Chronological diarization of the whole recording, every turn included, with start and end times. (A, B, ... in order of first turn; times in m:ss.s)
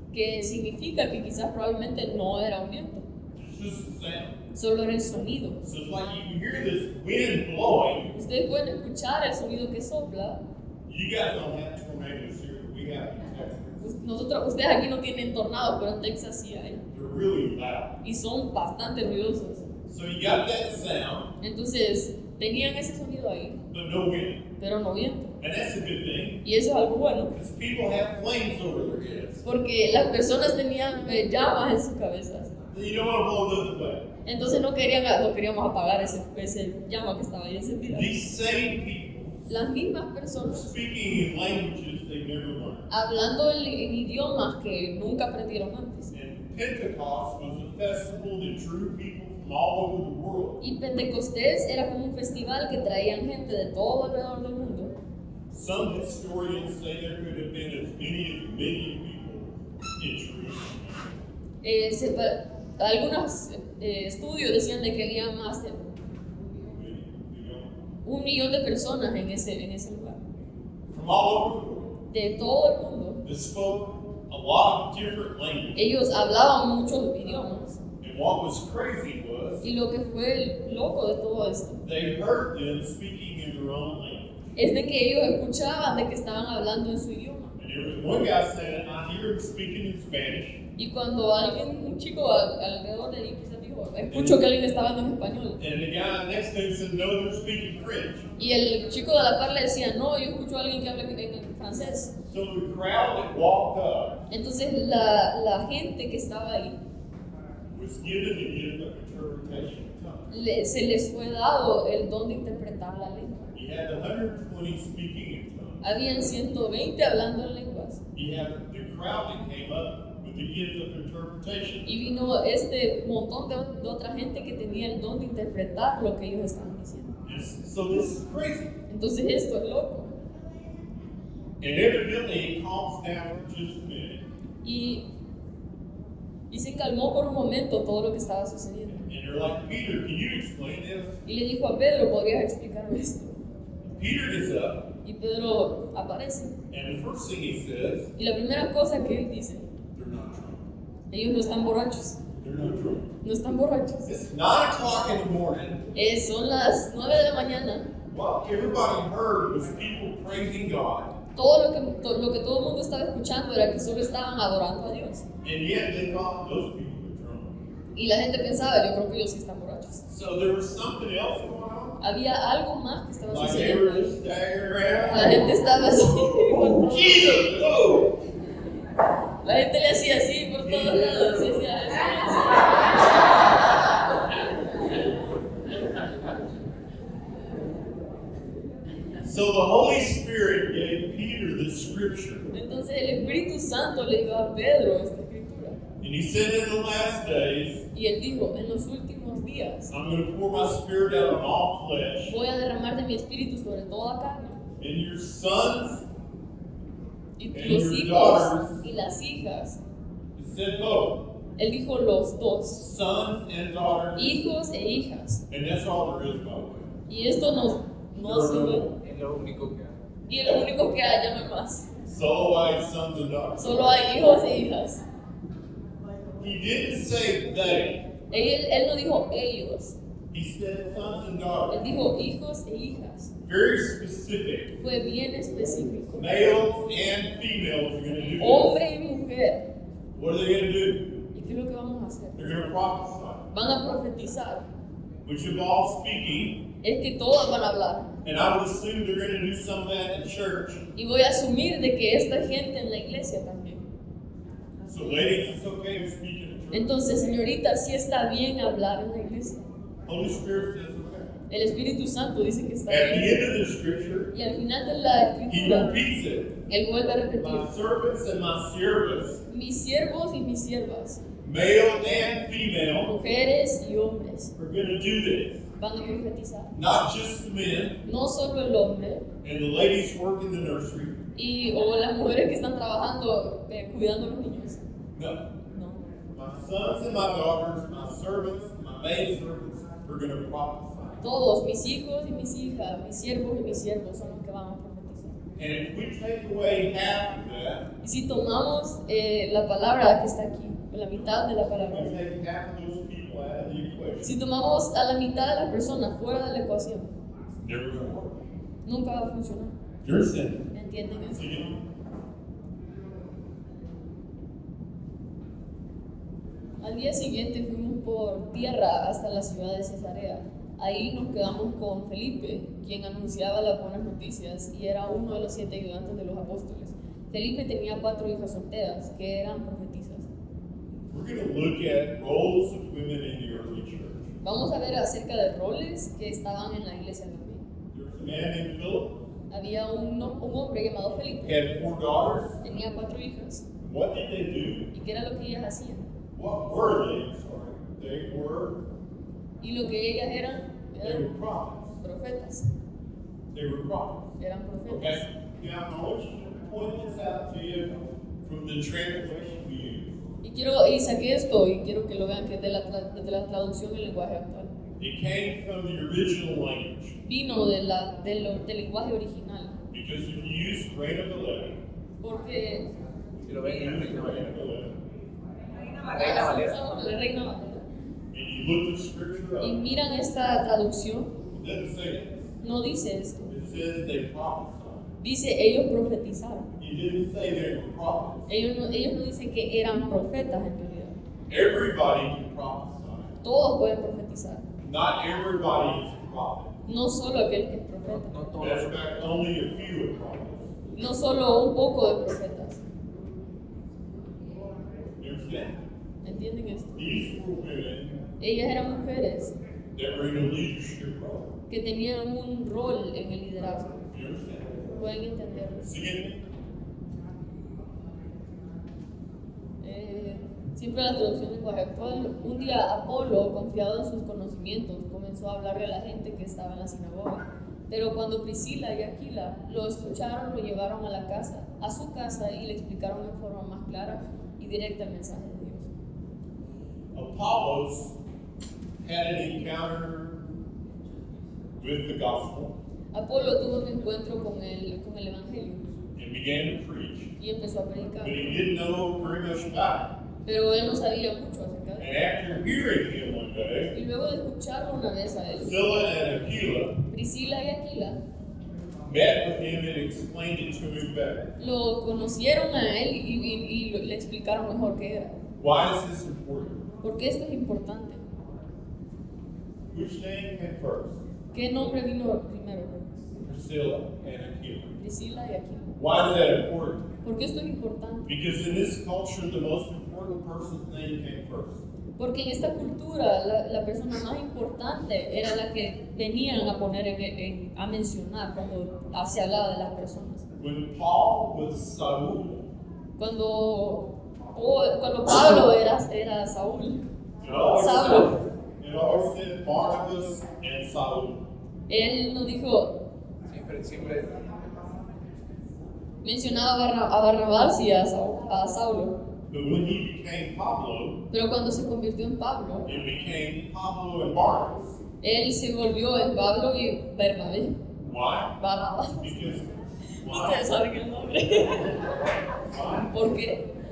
0:00.1-0:03.1 A
0:03.3-0:04.4 B
0:04.5-0:05.6 A
0:05.6-0:08.1 B
0:08.1-0:10.4 A
0:10.8-0:13.9 B
0:13.8-0:16.8 A
0:16.9-0:17.9 B
0:18.0-0:19.6 A
0:19.9-0:21.3 B
0:21.4-0:23.6 A
0:23.7-0:24.4 B
0:24.6-0:25.4 A
0:25.4-0:26.4 B
0:26.4-0:27.3 A
0:27.3-0:29.4 B
0:29.4-0:32.5 A
0:32.7-0:34.1 B
0:34.2-0:38.1 A
0:37.9-0:39.5 B
0:39.5-0:40.7 A
0:40.5-0:42.9 B
0:42.9-0:46.1 A
0:46.1-0:50.6 B
0:50.6-0:54.9 A
0:55.5-1:01.2 B
1:01.6-1:05.9 A
1:06.6-1:07.8 B
1:08.0-1:10.2 A
1:10.9-1:11.9 B
1:12.1-1:13.2 A
1:13.2-1:15.9 B
1:15.7-1:17.8 A
1:18.0-1:19.6 B
1:19.6-1:21.8 A
1:21.8-1:24.4 B
1:24.5-1:27.6 A
1:27.6-1:30.6 B
1:30.8-1:35.6 A
1:34.1-1:34.4 B
1:35.6-1:38.3 B
1:38.4-1:42.1 A
1:42.2-1:44.2 B
1:44.3-1:46.8 A
1:47.7-1:50.3 B
1:50.3-1:53.4 A
1:53.5-1:55.9 B
1:55.8-1:58.0 A
1:58.1-2:01.9 B
2:01.8-2:07.2 A
2:07.2-2:08.7 B
2:08.9-2:10.2 A
2:11.6-2:14.2 B
2:14.6-2:15.0 A
2:16.5-2:19.1 A
2:19.1-2:21.2 B
2:21.2-2:23.4 A
2:23.8-2:24.8 B
2:25.0-2:26.6 A
2:26.7-2:28.1 B
2:28.2-2:29.7 A
2:29.9-2:30.6 B
2:31.1-2:32.2 A
2:32.4-2:33.1 B
2:33.2-2:34.1 A
2:34.0-2:35.8 B
2:35.9-2:37.9 A
2:38.1-2:41.1 B
2:41.3-2:45.2 A
2:45.4-2:47.6 B
2:47.9-2:50.0 A
2:50.1-2:52.0 B
2:52.0-2:54.1 A
2:53.3-2:55.5 B
2:55.1-2:57.2 A
2:56.4-2:58.2 B
2:59.4-3:03.2 A
3:00.6-3:01.6 B
3:09.2-3:12.5 B
3:12.5-3:15.8 A
3:16.0-3:17.8 B
3:17.9-3:19.9 A
3:19.9-3:22.4 B
3:22.3-3:24.6 A
3:24.8-3:26.0 B
3:27.4-3:29.8 A
3:27.5-3:28.8 B
3:30.3-3:31.2 B
3:31.6-3:32.8 A
3:32.8-3:34.4 B
3:34.2-3:35.4 A
3:35.5-3:36.9 B
3:37.1-3:38.9 A
3:38.2-3:38.9 B
3:39.0-3:39.9 C
3:40.3-3:41.9 A
3:40.4-3:40.7 B
3:42.0-3:44.2 B
3:43.6-3:45.0 A
3:46.4-3:48.0 B
3:48.3-3:50.0 A
3:50.3-3:51.9 B
3:51.7-3:53.3 A
3:53.4-3:54.8 B
3:54.8-3:56.4 A
3:56.1-3:58.8 B
3:58.4-3:59.6 A
4:00.1-4:01.2 B
4:01.3-4:02.4 A
4:02.4-4:03.4 B
4:03.5-4:04.6 A
4:05.2-4:06.6 B
4:06.8-4:08.1 A
4:08.2-4:10.8 B
4:10.9-4:13.8 A
4:14.8-4:17.2 B
4:16.7-4:19.6 A
4:20.0-4:21.3 B
4:21.5-4:23.4 A
4:22.9-4:24.3 B
4:24.3-4:25.9 A
4:25.5-4:26.5 B
4:26.7-4:27.7 A
4:27.3-4:29.4 B
4:29.5-4:31.2 A
4:31.4-4:33.1 B
4:33.0-4:34.5 A
4:34.6-4:35.6 B
4:35.8-4:36.7 A
4:36.7-4:38.0 B
4:38.0-4:39.2 A
4:39.4-4:41.2 B
4:41.3-4:44.8 A
4:45.1-4:45.5 B
4:45.7-4:46.1 A
4:46.3-4:51.2 B
4:51.2-4:55.4 A
4:55.6-4:57.9 B
4:58.0-5:02.1 A
5:01.9-5:04.3 B
5:04.2-5:07.1 A
5:07.6-5:08.4 B
5:08.8-5:09.8 A
5:10.0-5:10.7 B
5:10.7-5:11.6 A
5:11.3-5:11.8 B
5:16.8-5:30.3 A
5:31.1-5:34.3 B
5:34.4-5:37.6 A
5:37.9-5:39.1 B
5:39.5-5:41.6 A
5:41.4-5:42.6 B
5:42.6-5:43.6 A
5:43.8-5:44.9 B
5:44.9-5:46.1 A
5:46.3-5:48.8 B
5:49.6-5:51.3 A
5:51.0-5:51.9 B
5:52.0-5:52.7 A
5:53.5-5:54.3 B
5:54.4-5:55.3 A
5:54.9-6:00.2 B
6:00.4-6:04.7 A
6:05.0-6:07.1 B
6:07.2-6:09.8 A
6:09.9-6:11.8 B
6:12.2-6:12.9 A
6:13.4-6:15.0 B
6:13.4-6:14.5 C
6:16.0-6:17.9 A
6:16.0-6:16.8 C
6:18.3-6:19.8 B
6:19.6-6:21.3 A
6:21.5-6:22.4 B
6:22.6-6:23.4 A
6:23.5-6:25.1 B
6:25.2-6:26.7 A
6:26.8-6:28.5 B
6:28.5-6:31.2 A
6:31.5-6:33.3 B
6:33.4-6:34.6 A
6:34.8-6:36.7 B
6:36.8-6:38.4 A
6:38.0-6:39.1 C
6:38.6-6:40.7 B
6:40.9-6:42.8 A
6:45.2-6:45.8 B
6:46.2-6:47.0 A
6:46.9-6:48.2 B
6:48.4-6:49.6 A
6:49.9-6:51.5 B
6:51.7-6:54.0 A
6:54.1-6:54.8 B
6:54.9-6:55.9 A
6:55.8-6:56.4 B
6:59.8-7:15.9 A
7:17.1-7:18.1 B
7:19.0-7:20.4 B
7:21.8-7:22.7 B
7:23.1-7:26.0 A
7:26.2-7:27.3 B
7:27.4-7:28.5 A
7:28.2-7:30.1 B
7:30.4-7:32.1 A
7:32.0-7:33.9 B
7:33.9-7:35.8 A
7:35.6-7:37.0 B
7:37.1-7:38.2 A
7:39.0-7:41.5 B
7:41.6-7:45.3 A
7:45.6-7:46.8 B
7:47.0-7:48.2 A
7:49.9-7:51.2 B
7:51.5-7:53.1 A
7:53.4-7:55.0 B
7:55.0-7:55.9 A
7:56.0-7:57.1 B
7:57.2-7:58.3 A
7:58.2-8:01.8 B
8:02.2-8:10.4 A
8:10.5-8:12.7 B
8:13.2-8:17.0 A
8:17.4-8:21.4 B
8:17.7-8:18.3 A
8:21.9-8:22.9 A
8:23.5-8:24.4 C
8:26.2-8:29.2 A
8:29.5-8:31.2 B
8:31.3-8:32.9 A
8:32.8-8:35.0 B
8:35.2-8:37.8 A
8:38.0-8:38.5 B
8:38.6-8:39.5 A
8:39.2-8:40.7 B
8:40.2-8:42.1 A
8:42.7-8:43.1 B
8:42.9-8:43.6 A